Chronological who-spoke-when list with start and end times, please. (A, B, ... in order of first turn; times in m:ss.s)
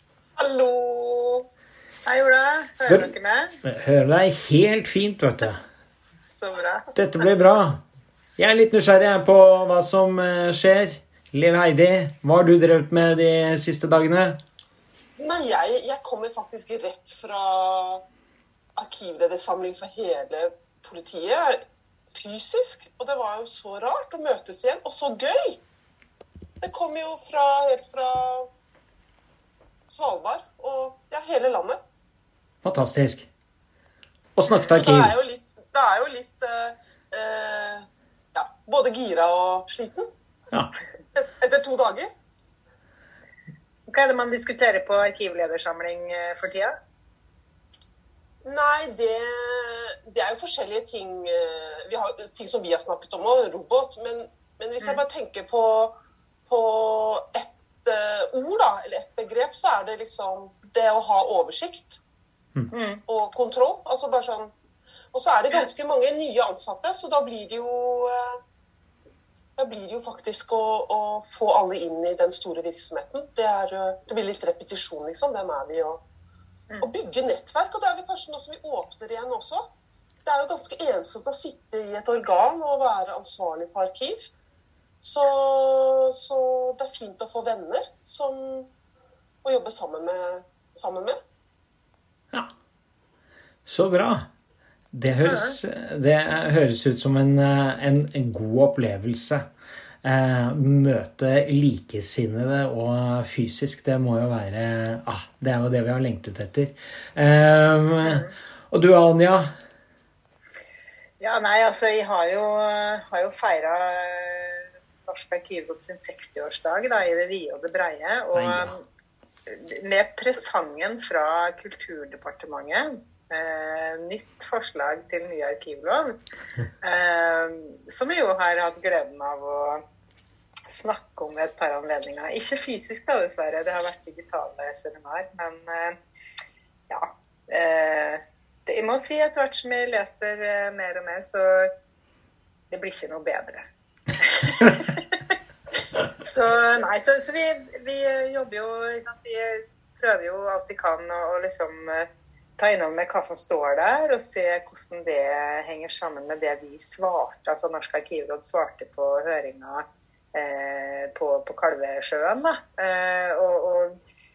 0:00.4-0:01.5 A
0:02.1-0:03.6 B
0:03.6-0:05.6 C
0:06.4-0:06.9 B
0:07.0-0:07.8 C
0:08.4-0:14.4 C
0:15.2-0:18.0 A
0:18.8-0:25.6 A
0:26.6-0:28.5 A
0:29.9-0:31.8 A
0:32.6-0:33.3 C
0:34.4-0:35.1 C
0:34.7-0:40.1 A
0:41.2-0:42.1 A
0:43.9-0:46.8 B
0:48.4-0:56.0 A
0:56.5-1:02.0 A
1:02.7-1:03.0 B
1:03.1-1:04.5 A
1:05.1-1:08.4 A
1:09.6-1:16.0 A
1:16.8-1:19.7 A
1:20.2-1:24.3 A
1:25.0-1:28.7 A
1:29.4-1:31.2 A
1:33.7-1:34.3 C
1:34.9-1:39.5 C
1:35.2-1:35.6 B
1:40.0-1:49.5 C
1:48.0-1:48.3 B
1:51.2-1:58.8 B
1:58.4-1:58.7 C
1:59.5-2:06.2 B
2:06.8-2:09.8 B
2:10.7-2:16.0 B
2:16.9-2:21.7 B
2:22.7-2:23.7 B
2:24.2-2:25.4 B
2:26.2-2:44.0 B